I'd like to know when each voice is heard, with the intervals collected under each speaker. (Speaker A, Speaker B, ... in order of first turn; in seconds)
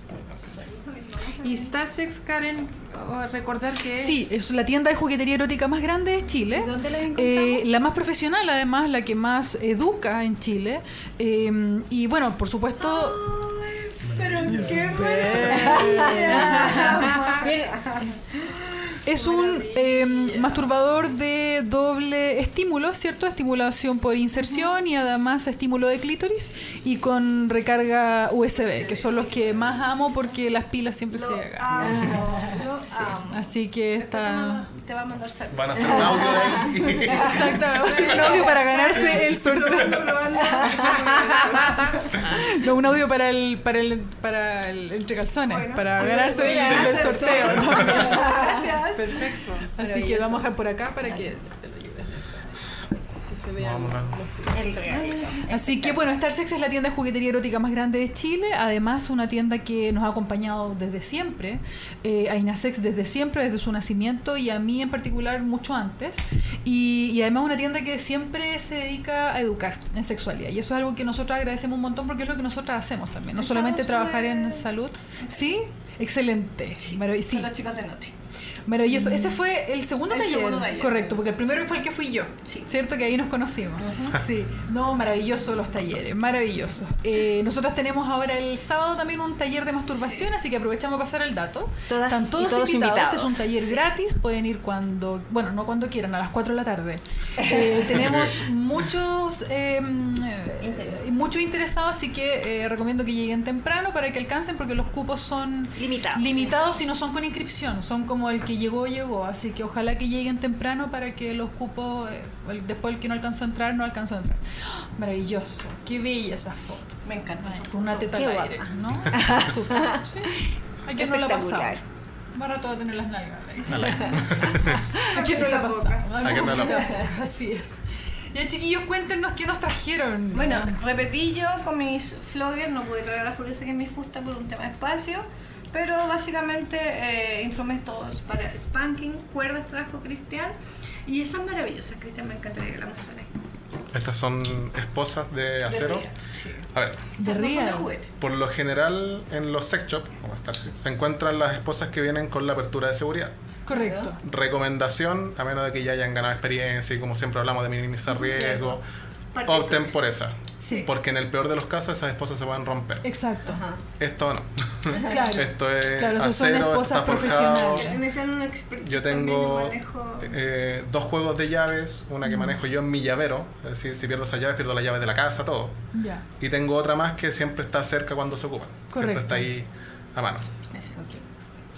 Speaker A: 0.5-1.8, 12.8-20.7, 24.4-24.8, 28.5-29.8, 31.1-42.2, 45.5-49.2, 54.9-55.5, 73.4-74.7, 76.8-78.1, 79.0-79.2, 80.1-81.2, 83.8-84.2, 90.0-90.2, 117.0-118.2, 125.0-126.7, 130.3-143.3, 145.7-146.1, 147.2-148.1, 158.2-158.8, 159.3-160.0, 167.4-170.3
Speaker B: 1.4-4.3, 49.2-49.7
Speaker C: 4.0-13.2, 14.5-17.1, 19.0-32.1, 32.9-34.7, 37.2-40.2, 40.8-41.5, 42.1-48.4, 49.0-52.5, 53.3-54.6, 55.5-77.5, 78.7-121.8, 122.3-127.8, 128.3-130.8, 147.2-147.9, 153.7-154.2, 160.6-160.9, 163.0-163.6, 165.1-168.0, 172.2-172.6, 175.9-176.2, 178.9-179.5
Speaker D: 6.5-7.7, 15.4-18.0, 31.8-32.6, 35.8-37.3, 40.5-41.4, 46.0-48.8, 49.8-50.4, 54.5-56.0, 91.9-93.8, 100.6-101.0, 105.8-106.6, 118.1-120.4, 121.0-121.8, 124.0-125.0, 126.7-127.1, 153.7-154.1, 163.5-163.8, 164.9-165.4, 180.8-181.2
Speaker E: 14.0-15.4, 31.8-32.1, 35.5-38.4, 53.6-54.2, 123.7-124.8, 126.2-126.9, 143.9-146.1, 146.7-147.1, 148.2-153.3, 154.2-158.8, 159.4-163.1, 164.0-167.9, 168.8-175.8, 176.4-180.5